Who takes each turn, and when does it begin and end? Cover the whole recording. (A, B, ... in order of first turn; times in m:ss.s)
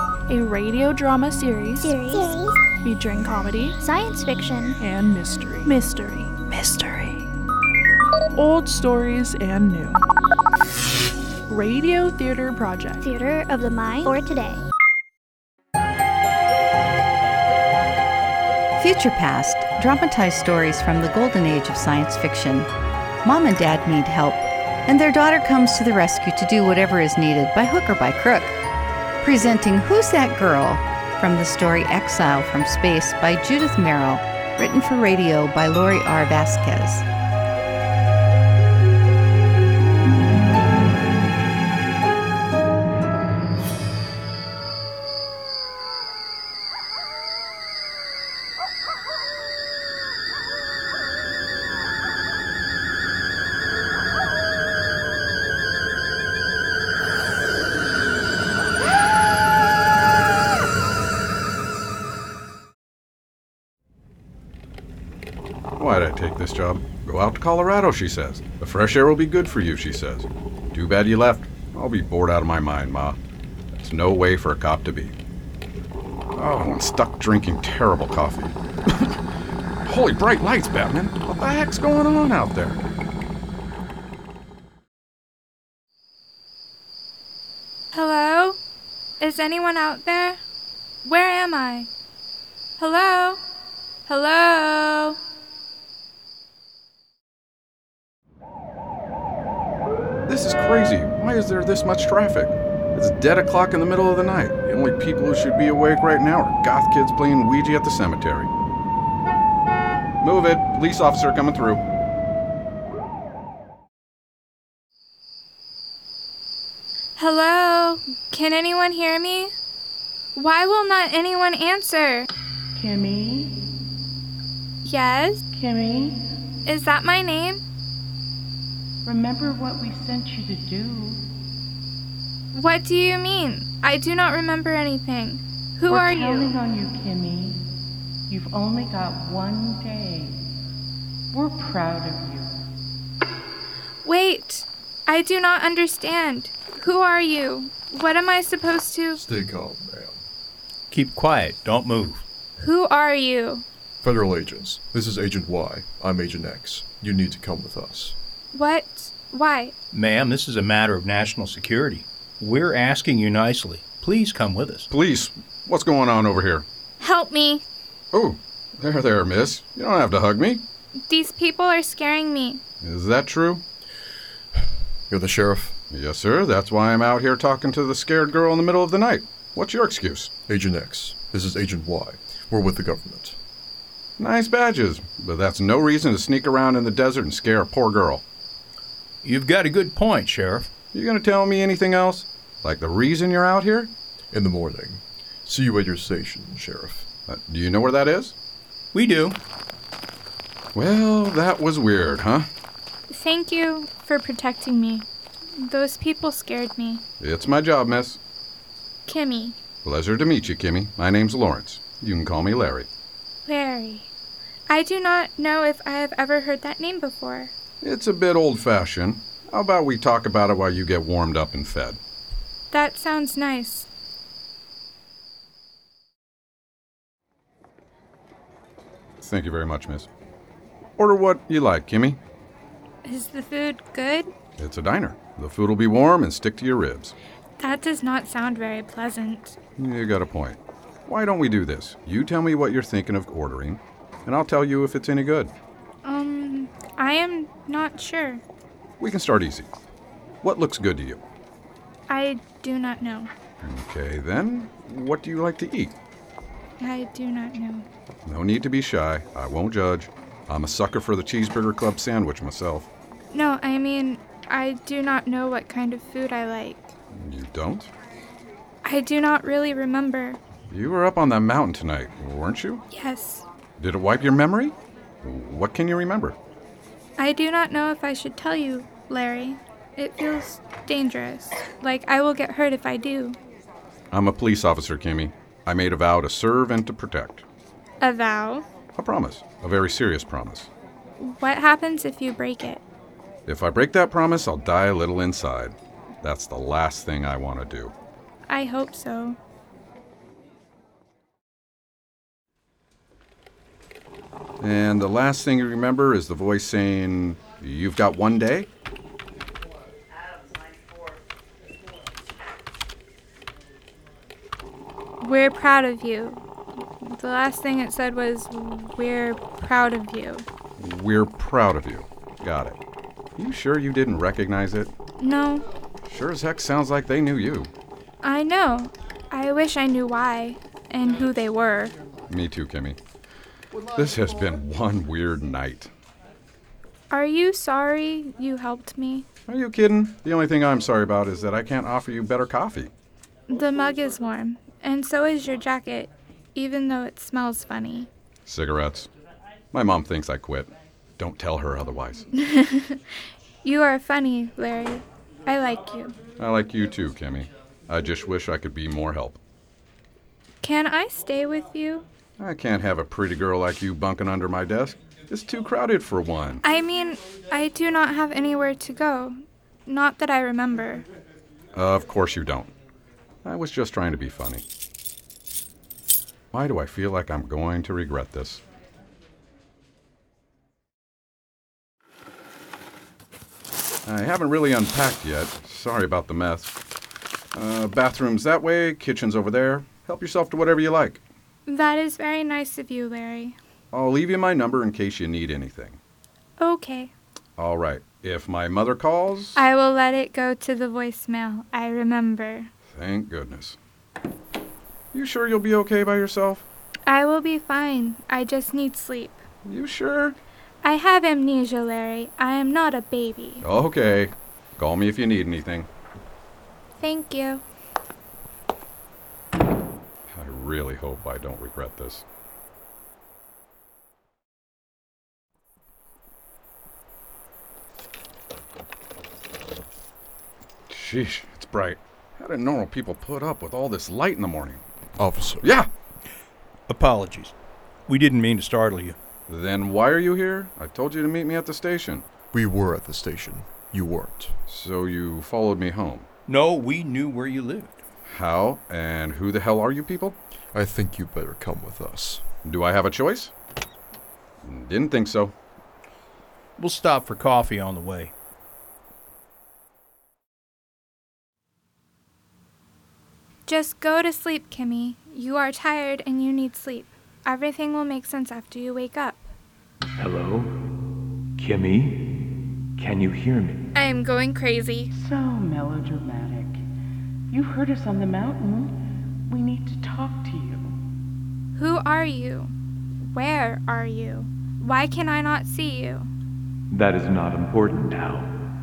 0:00.3-0:02.0 A
0:01.8-0:02.6 B
0:02.8-0:03.8 A
0:03.8-0:04.8 B
0:04.8-0:07.2 A
0:08.3-0:10.0 A
0:11.5-0:13.0 A
0:13.0-0:14.6 B
0:18.7-0:22.7 C
0:23.2-0:28.6 C
0:29.2-0:37.0 C
1:05.8-1:13.2 D
1:13.7-1:15.1 D
1:16.4-1:19.2 D
1:19.8-1:22.8 D
1:27.9-1:28.6 E
1:29.2-1:30.4 E
1:31.0-1:31.9 E
1:32.8-1:33.4 E
1:34.1-1:35.2 E
1:40.2-1:48.5 D
1:50.2-1:51.8 D
1:57.2-1:59.5 E
2:00.3-2:02.3 E
2:02.7-2:03.6 F
2:04.8-2:05.4 E
2:05.5-2:06.2 F
2:06.6-2:07.6 E
2:09.0-2:11.2 F
2:12.5-2:16.5 E
2:15.9-2:17.6 F
2:18.3-2:20.4 F
2:21.3-2:22.6 F
2:24.0-2:29.2 E
2:29.1-2:30.2 G
2:30.9-2:32.2 H
2:32.6-2:33.6 E
2:34.0-2:38.2 G
2:38.5-2:39.7 E
2:39.9-2:44.9 H
2:44.9-2:46.6 D
2:47.0-2:47.6 E
2:48.1-2:50.6 D
2:51.1-2:52.6 E
2:52.8-2:53.6 D
2:55.1-2:55.7 G
2:55.9-3:00.3 D
3:00.5-3:03.4 G
3:04.2-3:08.2 D
3:09.2-3:10.6 H
3:10.9-3:13.9 D
3:14.3-3:17.0 G
3:17.3-3:18.3 D
3:18.9-3:19.4 H
3:20.7-3:22.5 D
3:23.1-3:25.0 E
3:25.6-3:27.0 E
3:27.2-3:28.2 D
3:29.0-3:29.6 E
3:29.8-3:32.9 D
3:33.4-3:34.1 E
3:34.7-3:37.5 E
3:37.8-3:42.0 D
3:42.7-3:43.9 E
3:49.2-3:50.1 D
3:51.0-3:52.2 D
3:53.0-3:54.3 E
3:54.6-3:57.1 D
3:57.6-3:59.6 E
3:59.8-4:05.5 D
4:06.0-4:08.4 E
4:09.0-4:09.7 D
4:10.4-4:11.2 D
4:12.1-4:13.3 E
4:13.6-4:15.9 D
4:16.8-4:17.8 E
4:18.2-4:22.9 D
4:23.3-4:26.9 E
4:27.1-4:27.9 D
4:28.8-4:30.4 E
4:30.7-4:32.8 D
4:32.9-4:33.4 E
4:33.8-4:36.4 D
4:37.2-4:43.4 E
4:44.1-4:47.4 D
4:48.0-4:48.7 E
4:49.0-4:50.7 D
4:51.2-4:52.8 E
4:53.4-4:57.9 D
4:58.5-4:59.4 E
5:04.6-5:08.7 D
5:15.2-5:16.4 E
5:17.0-5:20.4 E
5:20.8-5:22.8 D
5:23.4-5:24.9 D
5:25.2-5:25.6 E
5:26.0-5:27.7 D
5:28.2-5:32.0 E
5:32.3-5:33.0 D
5:33.7-5:35.9 D
5:37.1-5:39.2 E
5:39.5-5:42.9 D
5:43.5-5:48.1 E
5:48.4-5:49.1 D
5:49.7-5:52.2 D
5:52.3-5:56.2 E
5:56.4-5:59.4 D
6:00.6-6:02.0 E
6:02.4-6:06.6 D
6:06.6-6:11.0 E
6:11.7-6:12.7 D
6:13.4-6:14.6 D
6:16.5-6:18.6 D
6:24.0-6:26.7 D
6:27.5-6:31.2 D
6:31.7-6:33.6 E
6:33.9-6:36.0 D
6:36.6-6:37.1 E
6:37.6-6:39.6 D
6:39.5-6:42.7 E
6:42.9-6:43.8 D
6:45.1-6:46.6 D
6:47.0-6:49.4 E
6:49.6-6:50.4 D
6:50.8-6:53.6 E
6:53.6-6:55.9 D
6:57.0-6:57.6 E
7:00.3-7:02.2 D
7:10.9-7:14.8 D
7:15.2-7:15.7 G
7:15.6-7:15.9 D
7:16.9-7:17.5 H
7:18.1-7:19.2 H
7:19.5-7:22.2 D
7:22.5-7:24.5 G
7:24.7-7:26.3 D
7:26.5-7:28.0 H
7:28.2-7:30.4 D
7:30.7-7:32.4 G
7:32.6-7:33.5 D
7:34.6-7:35.5 D
7:36.8-7:38.3 H
7:43.7-7:49.5 E
7:50.2-7:50.7 I
7:51.6-7:52.4 I
7:53.0-7:53.9 I
7:53.9-7:55.1 E
7:55.1-7:56.8 F
7:57.5-8:01.0 F
8:01.7-8:02.7 E
8:03.3-8:06.3 E
8:06.9-8:08.5 I